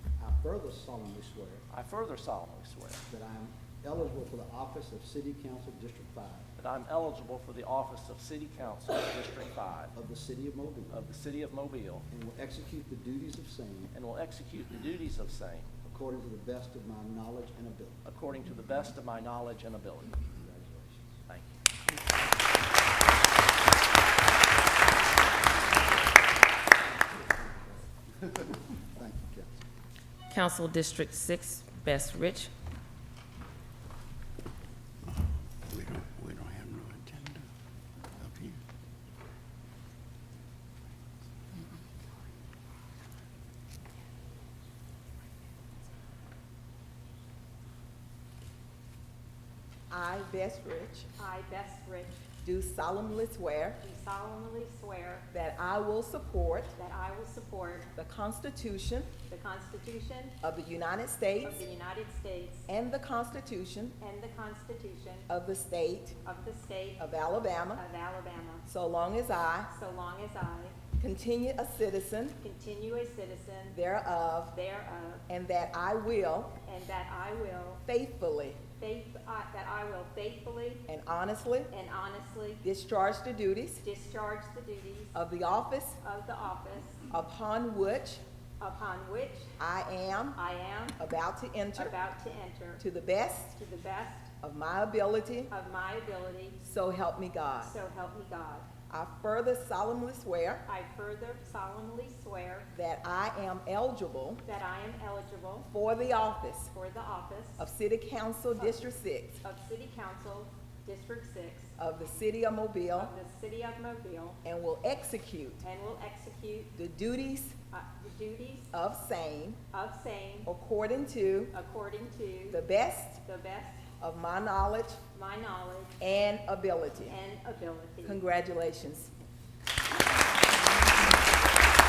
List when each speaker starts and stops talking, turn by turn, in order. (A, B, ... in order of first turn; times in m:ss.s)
0:00.2-0:01.6 A
0:01.7-0:03.0 B
0:03.1-0:06.5 A
0:06.6-0:09.9 B
0:09.9-0:11.0 A
0:10.9-0:12.0 B
0:12.1-0:13.9 A
0:13.9-0:15.7 B
0:15.8-0:18.0 A
0:18.0-0:20.2 B
0:20.2-0:21.2 A
0:21.3-0:21.6 B
0:27.0-0:29.6 A
0:30.3-0:32.5 C
0:35.7-0:37.5 D
0:38.3-0:38.6 D
0:49.9-0:51.1 E
0:51.2-0:52.2 F
0:52.4-0:53.8 E
0:53.8-0:55.2 F
0:55.3-0:56.7 E
0:56.7-0:57.9 F
0:58.0-0:59.1 E
0:59.3-1:00.3 F
1:00.4-1:01.6 E
1:01.4-1:02.7 F
1:02.7-1:04.0 E
1:04.0-1:05.3 F
1:05.3-1:06.2 E
1:06.2-1:07.1 F
1:07.0-1:07.8 E
1:07.7-1:08.6 F
1:08.6-1:09.7 E
1:09.7-1:10.8 F
1:10.9-1:12.4 E
1:12.4-1:13.8 F
1:13.7-1:14.6 E
1:14.5-1:15.2 F
1:15.3-1:16.6 E
1:16.6-1:17.8 F
1:17.8-1:18.6 E
1:18.8-1:20.8 F
1:20.9-1:21.7 E
1:21.7-1:22.6 F
1:22.6-1:23.8 E
1:23.8-1:25.2 F
1:25.1-1:26.0 E
1:26.0-1:27.1 F
1:27.1-1:28.2 E
1:28.6-1:29.5 F
1:29.6-1:30.4 E
1:30.3-1:31.0 F
1:31.0-1:31.9 E
1:31.8-1:32.8 F
1:32.8-1:33.5 E
1:33.5-1:34.3 F
1:34.4-1:35.5 E
1:35.5-1:36.6 F
1:36.6-1:37.7 E
1:37.6-1:38.7 F
1:38.9-1:40.6 E
1:40.6-1:42.7 F
1:42.7-1:44.4 E
1:44.4-1:45.7 F
1:45.7-1:46.7 E
1:46.7-1:47.6 F
1:47.6-1:49.4 E
1:48.5-1:48.8 F
1:49.4-1:51.7 F
1:51.8-1:53.1 E
1:53.0-1:54.4 F
1:54.4-1:55.6 E
1:55.6-1:56.7 F
1:56.7-1:57.6 E
1:57.7-1:58.7 F
1:58.7-1:59.6 E
1:59.7-2:00.5 F
2:00.4-2:01.5 E
2:01.5-2:02.6 F
2:02.5-2:03.2 E
2:03.2-2:03.8 F
2:04.0-2:05.0 E
2:05.1-2:06.0 F
2:06.0-2:07.2 E
2:07.1-2:08.2 F
2:08.0-2:09.1 E